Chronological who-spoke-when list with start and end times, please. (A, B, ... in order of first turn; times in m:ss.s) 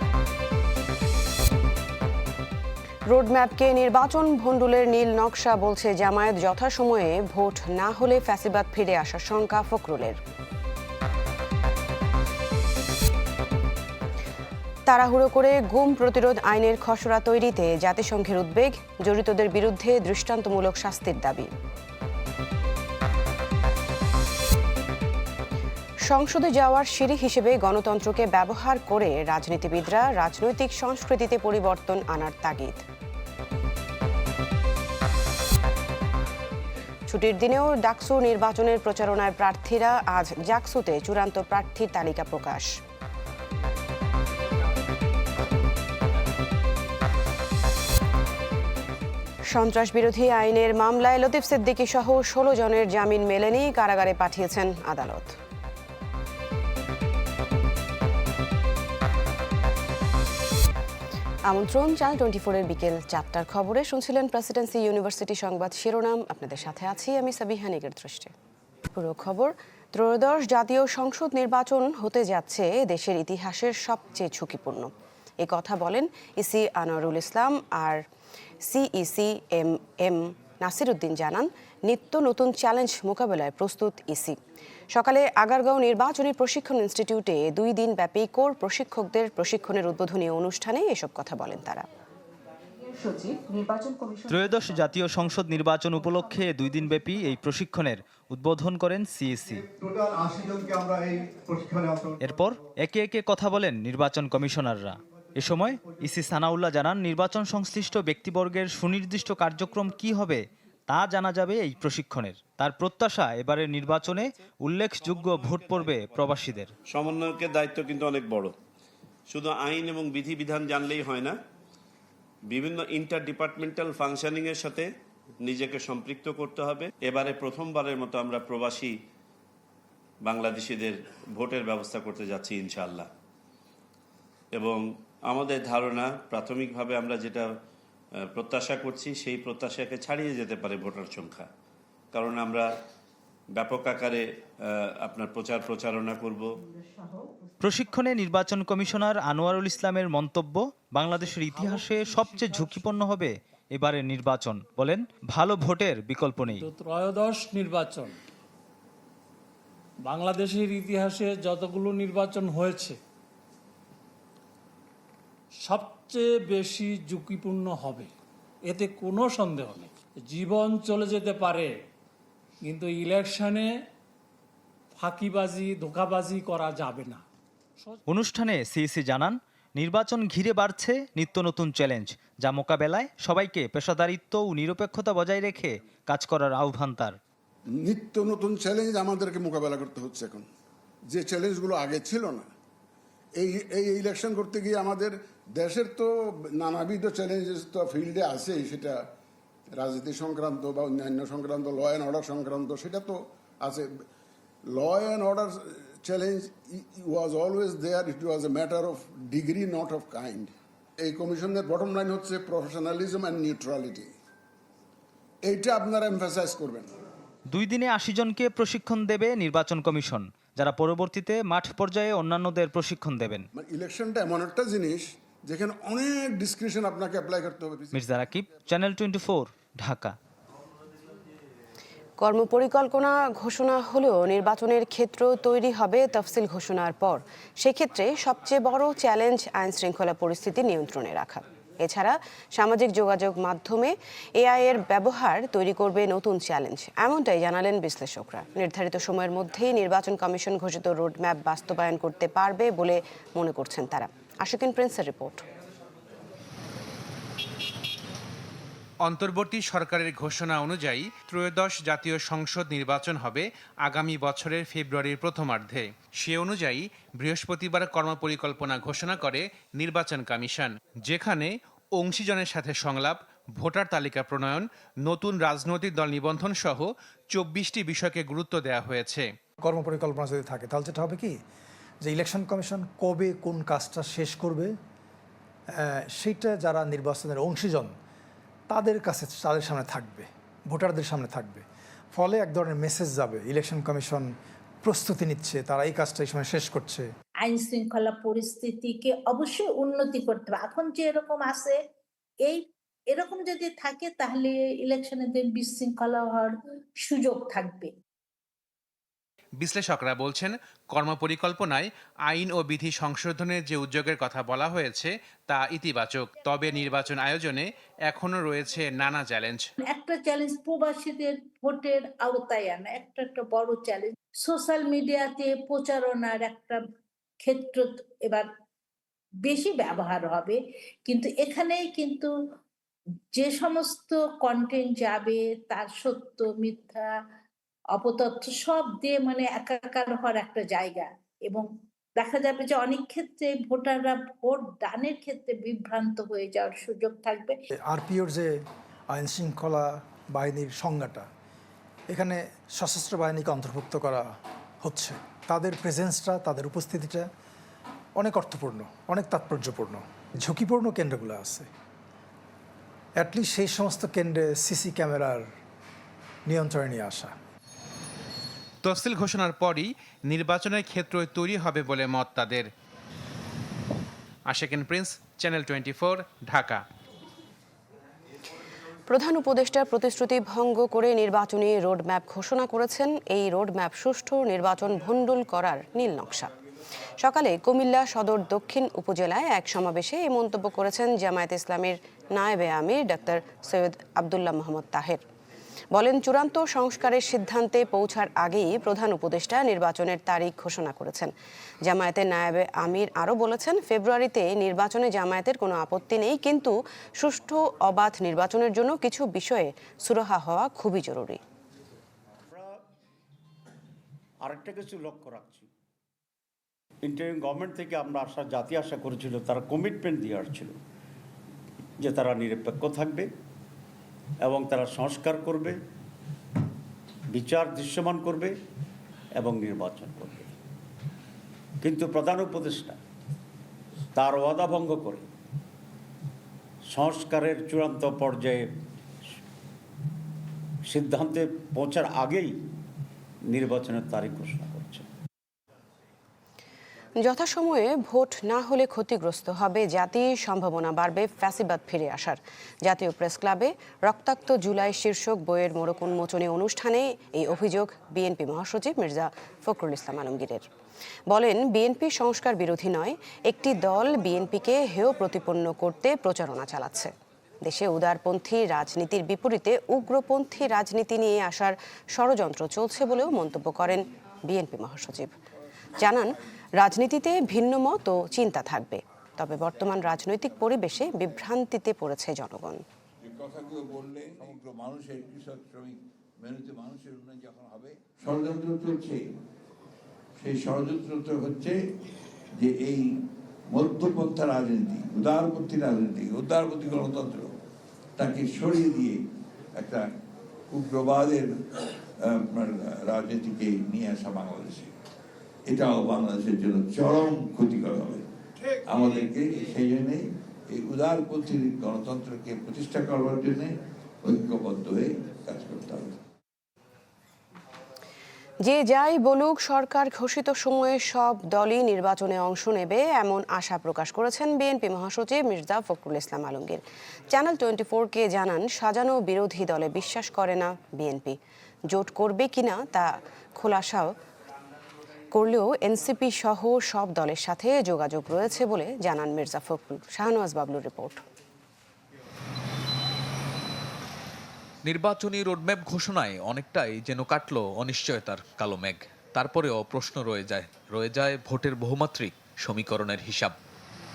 0:03.1-0:10.2 A
0:14.9-0:21.5 A
0:26.0-0:32.8 A
0:37.1-0:42.8 A
0:49.5-0:55.4 A
1:01.5-1:08.3 A
1:08.9-1:18.0 A
1:18.6-1:24.4 A
1:24.9-1:31.8 A
1:34.3-1:39.7 B
1:42.2-1:56.7 B
1:56.9-1:58.5 C
1:59.3-2:01.4 C
2:02.5-2:04.9 C
2:05.4-2:08.9 C
2:10.2-2:13.1 C
2:14.5-2:17.5 C
2:18.3-2:21.5 C
2:22.1-2:22.7 C
2:23.6-2:26.5 C
2:27.6-2:36.7 B
2:31.4-2:32.9 D
2:36.6-2:38.2 D
2:40.1-2:43.0 D
2:45.6-2:48.1 D
2:48.7-2:51.8 D
2:52.6-2:53.7 D
2:55.0-2:57.2 D
2:58.1-3:07.2 B
3:07.8-3:10.5 E
3:11.1-3:12.5 E
3:13.4-3:19.0 E
3:19.8-3:23.9 E
3:24.7-3:30.5 E
3:31.0-3:34.1 E
3:35.4-3:36.9 E
3:37.5-3:43.4 B
3:43.6-3:48.0 E
3:47.9-3:50.2 B
3:52.2-4:15.4 A
4:19.1-4:31.5 F
4:32.0-4:34.6 F
4:35.1-4:36.8 F
4:37.4-4:39.2 F
4:39.6-4:41.4 G
4:42.0-4:44.8 G
4:45.8-4:47.9 G
4:48.7-4:54.3 G
4:54.8-4:57.1 G
4:57.4-5:01.8 H
5:02.4-5:06.5 H
5:07.0-5:07.9 H
5:09.6-5:11.8 F
5:12.3-5:15.0 F
5:15.6-5:16.3 F
5:17.0-5:19.6 F
5:19.8-5:26.8 H
5:27.4-5:28.5 H
5:29.4-5:32.3 H
5:33.4-5:37.1 H
5:37.9-5:47.6 H
5:47.9-5:51.3 G
5:52.1-5:57.3 G
5:58.2-6:01.7 G
6:03.2-6:05.5 G
6:06.5-6:07.3 G
6:19.1-6:26.5 A
6:27.2-6:35.2 A
6:35.9-6:41.3 A
6:41.8-6:51.4 A
6:52.5-6:52.8 I
6:54.5-6:55.7 I
6:57.0-7:00.7 I
7:02.0-7:03.3 I
7:04.4-7:05.8 I
7:07.3-7:08.5 I
7:09.4-7:10.5 I
7:11.8-7:13.0 I
7:14.2-7:15.2 I
7:16.9-7:18.6 I
7:20.9-7:22.5 I
7:23.5-7:25.1 I
7:27.2-7:40.7 A
7:41.3-7:47.1 A
7:47.6-7:55.3 A
7:56.0-8:02.8 A
8:03.2-8:09.2 J
8:10.4-8:11.8 J
8:12.6-8:13.1 J
8:13.7-8:17.6 J
8:18.2-8:19.2 J
8:19.8-8:20.0 J
8:20.7-8:21.6 J
8:22.2-8:24.9 J
8:25.7-8:28.2 J
8:28.8-8:36.2 J
8:38.6-8:51.4 A
8:51.9-8:54.1 A
8:55.3-9:01.2 A
9:04.9-9:13.6 K